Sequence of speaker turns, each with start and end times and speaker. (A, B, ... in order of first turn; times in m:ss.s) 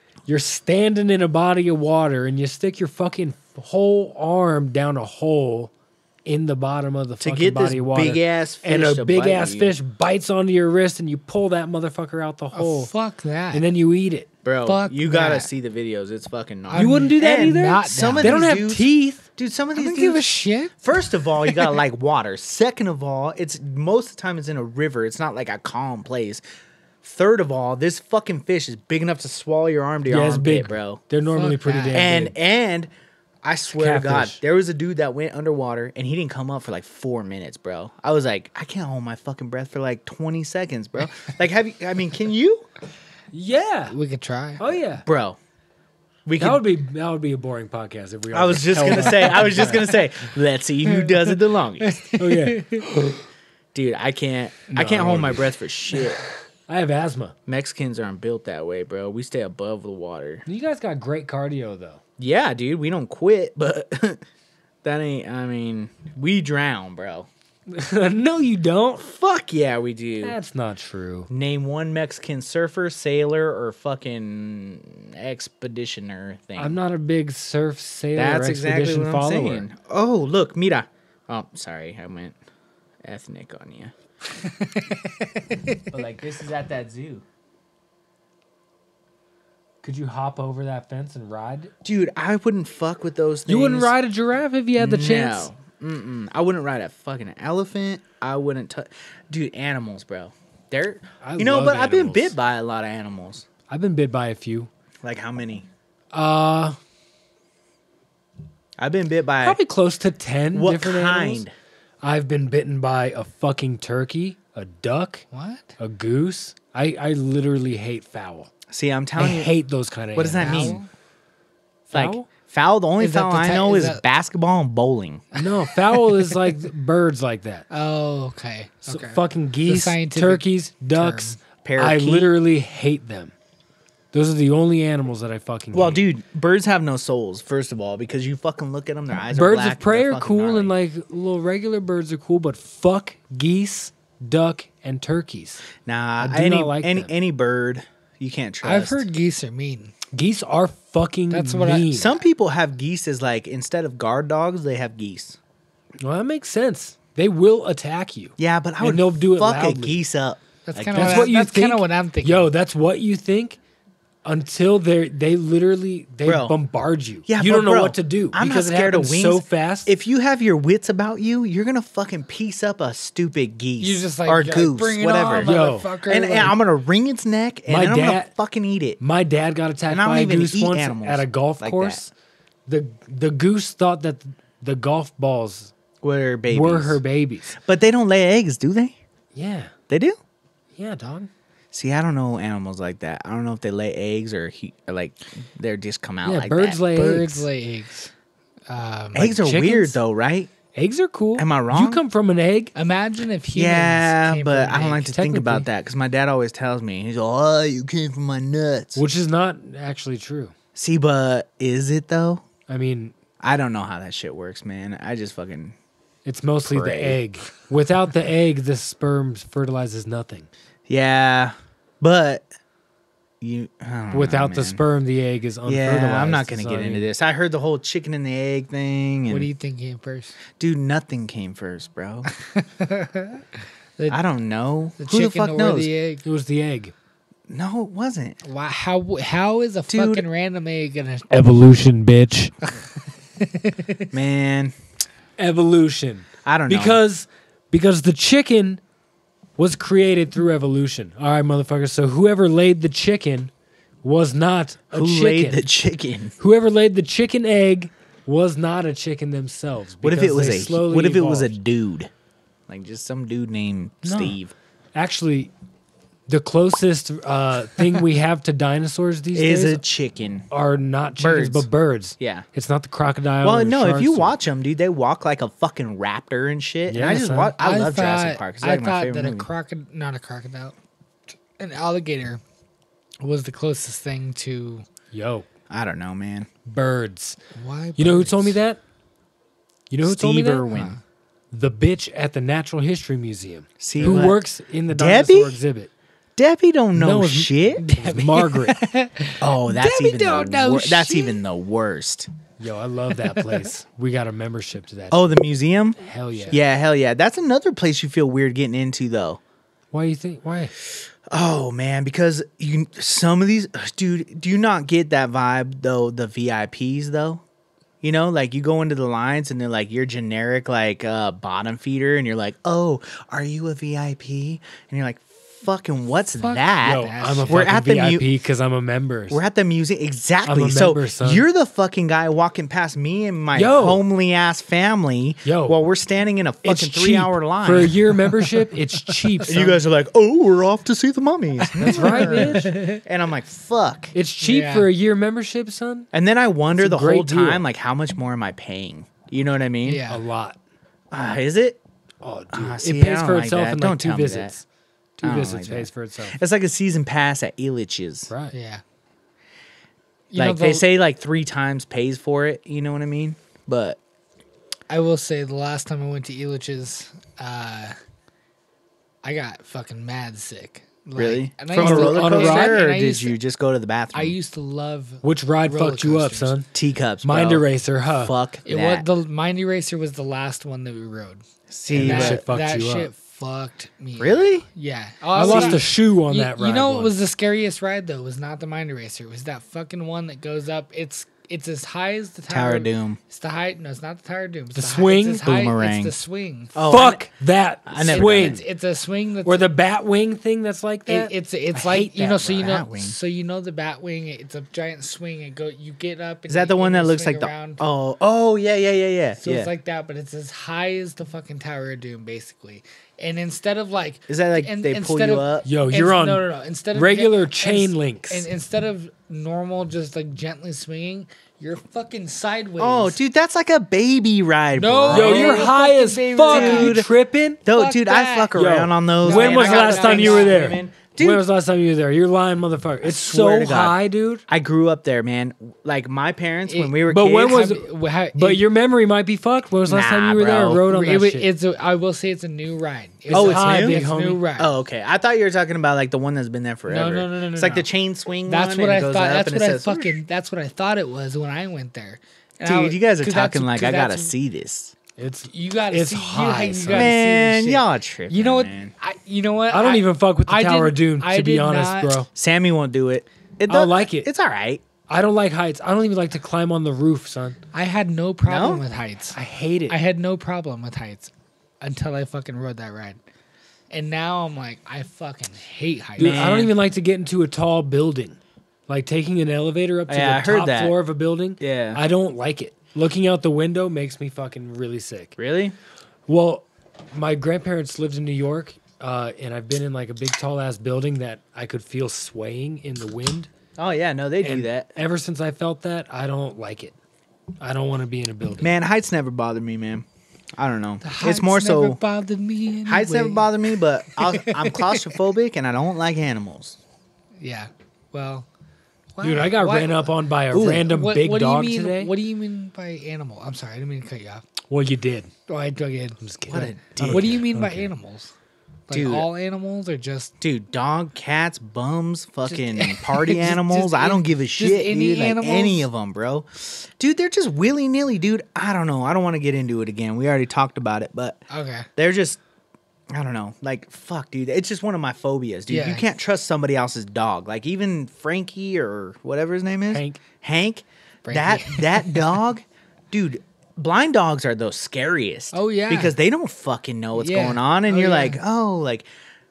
0:00.3-0:05.7 A
0:06.2-0:12.9 A
0:07.2-0:09.8 B
0:12.5-0:13.6 C
0:13.5-0:14.3 A
0:14.4-0:20.2 B
0:14.6-0:15.5 C
0:16.7-0:18.5 C
0:16.7-0:19.2 A
0:19.7-0:20.8 C
0:20.8-0:26.4 B
0:27.0-0:31.0 B
0:30.1-0:32.3 A
0:31.3-0:32.0 C
0:31.9-0:32.9 B
0:33.4-0:42.7 B
0:33.7-0:34.4 A
0:43.3-0:44.0 A
0:43.9-0:44.6 C
0:44.6-0:45.0 A
0:45.0-0:45.4 B
0:46.2-0:46.6 B
0:46.4-0:50.0 A
0:48.3-0:52.0 B
0:50.9-0:53.2 C
0:52.2-0:52.9 A
0:53.7-0:56.2 B
0:54.7-0:55.5 A
0:56.7-0:57.3 A
0:57.5-1:00.4 B
1:00.5-1:02.0 A
1:02.2-1:04.2 B
1:04.8-1:07.3 B
1:07.7-1:09.1 A
1:09.0-1:10.4 B
1:10.2-1:11.3 A
1:11.3-1:16.8 B
1:16.6-1:19.6 A
1:18.2-1:22.4 B
1:23.0-1:23.9 B
1:24.3-1:25.8 C
1:25.9-1:27.2 B
1:29.8-1:31.7 A
1:31.8-1:33.9 B
1:33.5-1:35.5 A
1:34.8-1:43.5 B
1:41.2-1:42.3 A
1:43.7-1:44.7 A
1:45.0-1:45.7 B
1:46.1-1:46.8 A
1:48.8-1:49.6 B
1:49.4-1:51.4 A
1:50.5-1:51.5 B
1:52.0-1:55.2 A
1:55.3-1:55.7 C
1:55.8-1:58.5 A
1:58.7-1:59.5 B
1:59.2-2:00.8 A
2:00.2-2:00.8 B
2:00.4-2:00.9 C
2:01.9-2:02.3 A
2:01.9-2:05.2 B
2:03.0-2:04.0 C
2:05.3-2:06.6 C
2:05.4-2:07.7 A
2:07.7-2:11.4 C
2:08.9-2:13.3 A
2:11.6-2:12.3 B
2:14.1-2:16.0 A
2:15.7-2:20.7 B
2:19.3-2:25.7 A
2:25.8-2:29.0 B
2:26.2-2:27.1 A
2:28.6-2:29.9 C
2:30.1-2:32.1 A
2:31.3-2:31.9 C
2:31.9-2:35.4 B
2:36.0-2:40.0 A
2:38.4-2:41.3 B
2:40.7-2:42.5 C
2:40.9-2:43.6 A
2:44.2-2:49.9 A
2:46.2-2:46.6 B
2:47.3-2:59.0 B
2:53.8-2:56.5 C
2:55.4-2:55.9 A
2:57.7-2:58.3 A
2:59.0-3:02.1 A
2:59.9-3:02.0 B
3:02.7-3:05.7 A
3:06.0-3:07.0 B
3:06.5-3:07.6 A
3:07.6-3:09.0 B
3:09.3-3:09.7 A
3:09.9-3:10.2 B
3:10.8-3:11.3 A
3:11.7-3:16.8 B
3:16.2-3:17.5 A
3:16.9-3:18.1 C
3:18.7-3:19.3 C
3:19.1-3:20.5 B
3:19.2-3:20.0 A
3:20.7-3:22.7 A
3:21.4-3:22.0 B
3:22.7-3:25.0 C
3:23.5-3:29.0 B
3:24.9-3:25.6 A
3:29.0-3:30.5 A
3:30.8-3:32.4 B
3:32.7-3:33.2 A
3:33.4-3:35.8 B
3:36.2-3:40.5 A
3:36.6-3:37.2 B
3:40.9-3:42.5 B
3:43.4-3:44.8 B
3:44.1-3:47.1 A
3:45.6-3:49.5 B
3:49.3-3:50.4 C
3:50.6-3:52.3 B
3:52.4-3:53.4 C
3:54.1-3:55.9 B
3:55.0-3:56.2 C
3:56.2-3:56.9 A
3:57.5-3:58.4 B
3:58.4-4:01.7 C
3:59.9-4:00.2 B
4:01.3-4:02.5 A
4:03.4-4:04.1 C
4:04.1-4:04.7 B
4:05.4-4:08.8 A
4:06.4-4:07.0 B
4:09.6-4:13.5 A
4:14.0-4:15.6 A
4:14.9-4:16.4 B
4:16.4-4:21.5 A
4:20.0-4:22.1 B
4:22.7-4:24.5 B
4:24.0-4:24.4 A
4:24.9-4:25.5 A
4:26.3-4:29.8 A
4:29.3-4:30.5 B
4:30.5-4:34.3 A
4:31.2-4:32.5 B
4:33.4-4:39.5 B
4:36.9-4:37.6 A
4:37.6-4:40.8 C
4:41.6-4:42.4 C
4:43.2-4:44.8 C
4:45.1-4:45.5 A
4:45.7-4:46.5 B
4:46.6-4:47.4 A
4:47.5-4:48.6 C
4:48.0-4:48.8 A
4:49.9-4:50.7 A
4:50.0-4:51.0 B
4:50.7-4:51.0 C
4:51.5-4:55.9 A
4:53.8-4:55.6 B
4:54.0-4:54.3 C
4:56.4-4:58.4 B
4:57.0-4:58.8 A
4:58.5-5:01.4 C
4:59.4-5:02.3 B
5:02.6-5:05.2 A
5:03.2-5:03.6 C
5:05.1-5:09.4 B
5:06.0-5:06.6 A
5:09.9-5:10.8 A
5:11.3-5:17.4 B
5:18.0-5:28.3 B
5:26.4-5:27.7 C
5:26.8-5:29.4 A
5:29.3-5:38.0 B
5:30.4-5:31.4 A
5:33.5-5:34.0 A
5:35.4-5:35.8 A
5:36.6-5:39.8 A
5:39.0-5:39.5 C
5:39.4-5:44.1 B
5:41.6-5:43.0 C
5:41.8-5:42.8 A
5:44.1-5:46.1 A
5:44.4-5:44.9 C
5:46.1-5:50.0 B
5:46.8-5:47.6 A
5:49.8-5:50.2 C
5:50.1-5:50.6 A
5:51.1-5:51.8 B
5:52.2-5:54.6 A
5:52.5-5:54.5 B
5:55.2-5:56.4 A
5:55.2-5:58.3 B
5:58.5-5:58.8 C
6:00.3-6:00.9 C
6:00.4-6:04.0 B
6:04.9-6:08.0 C
6:09.2-6:13.3 C
6:11.2-6:14.3 B
6:11.7-6:12.8 A
6:14.1-6:16.6 C
6:15.2-6:16.7 A
6:16.7-6:19.0 B
6:17.2-6:18.3 A
6:18.6-6:36.8 C
6:21.7-6:22.4 B
6:21.9-6:23.1 A
6:24.2-6:24.6 B
6:25.3-6:25.8 B
6:25.3-6:27.1 A
6:32.5-6:33.2 B
6:34.7-6:35.5 A
6:35.4-6:36.1 B
6:36.7-6:37.3 B
6:36.9-6:38.6 A
6:37.8-6:38.6 B
6:38.0-6:39.7 C
6:39.4-6:42.7 A
6:41.1-6:47.8 C
6:42.6-6:43.1 B
6:46.5-6:49.7 B
6:49.4-7:03.2 C
6:54.3-6:55.6 B
6:55.6-6:58.5 A
7:02.8-7:05.7 B
7:04.8-7:07.1 C
7:05.1-7:07.6 A
7:06.5-7:07.1 B
7:07.6-7:11.4 B
7:07.7-7:08.5 C
7:08.5-7:14.4 A
7:09.2-7:10.7 C
7:13.0-7:17.7 B
7:16.7-7:18.6 C
7:17.1-7:21.5 A
7:19.9-7:20.8 B
7:20.8-7:24.7 C
7:23.3-7:24.4 A
7:23.3-7:24.0 B
7:24.6-7:30.1 B
7:26.9-7:27.9 C
7:28.5-7:34.3 C
7:32.6-7:34.9 B
7:35.2-7:37.1 A
7:35.5-7:42.2 C
7:36.9-7:38.9 B
7:39.7-7:42.3 A
7:42.3-7:44.8 B
7:43.7-7:44.3 A
7:45.1-7:47.6 A
7:47.7-7:53.2 C
7:48.4-7:48.8 B
7:49.3-7:50.0 A
7:53.9-7:56.6 C
7:56.2-8:05.4 A
7:56.2-7:56.7 B
8:00.1-8:00.9 B
8:01.6-8:02.0 B
8:05.4-8:05.8 B
8:06.3-8:13.5 A
8:13.8-8:14.9 B
8:14.4-8:16.9 A
8:17.6-8:18.7 A
8:18.6-8:20.0 B
8:20.6-8:22.0 B
8:21.0-8:23.5 C
8:22.8-8:26.8 B
8:24.2-8:25.2 C
8:27.4-8:28.5 C
8:29.1-8:34.4 C
8:29.2-8:32.1 A
8:30.5-8:30.9 B
8:34.7-8:35.3 A
8:35.5-8:36.2 C
8:36.2-8:37.9 A
8:36.5-8:37.4 B
8:37.0-8:38.3 C
8:38.9-8:40.3 C
8:38.9-8:39.3 B
8:40.4-8:51.4 B
8:42.5-8:45.8 C
8:51.5-8:51.9 C
8:52.0-8:52.4 B
8:53.1-9:09.0 B
8:55.7-8:56.0 C
8:59.9-9:00.2 A
9:01.2-9:02.4 C
9:05.5-9:06.2 C
9:07.2-9:08.4 C